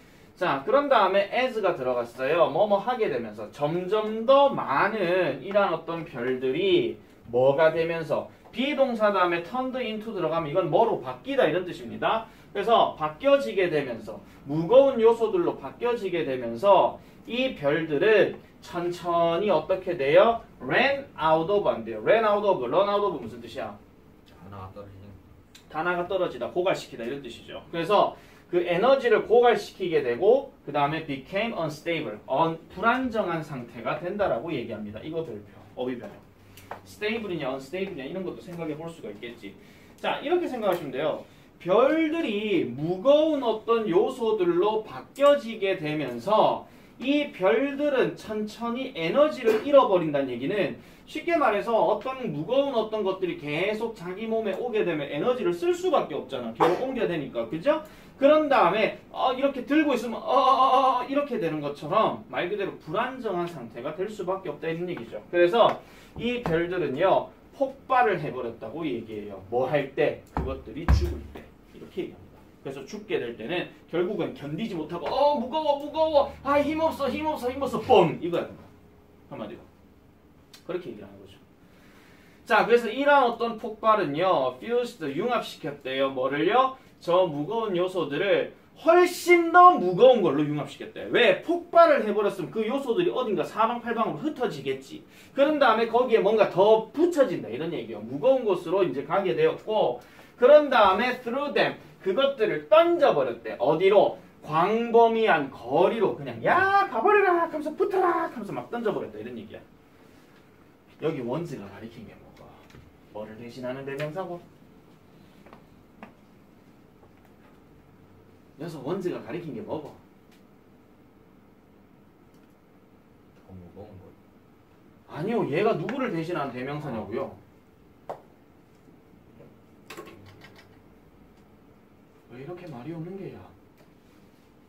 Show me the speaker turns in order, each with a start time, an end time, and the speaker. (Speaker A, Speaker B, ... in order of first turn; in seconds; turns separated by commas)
Speaker A: 0.4-23.8, Speaker B: 24.3-25.2, Speaker A: 25.7-36.2, Speaker A: 36.8-78.7, Speaker A: 79.3-79.7, Speaker A: 80.7-81.4, Speaker A: 82.5-109.6, Speaker A: 111.0-112.6, Speaker A: 113.1-114.4, Speaker A: 118.6-120.0, Speaker B: 123.3-124.2, Speaker A: 125.1-127.4, Speaker B: 126.8-127.1, Speaker A: 132.3-133.5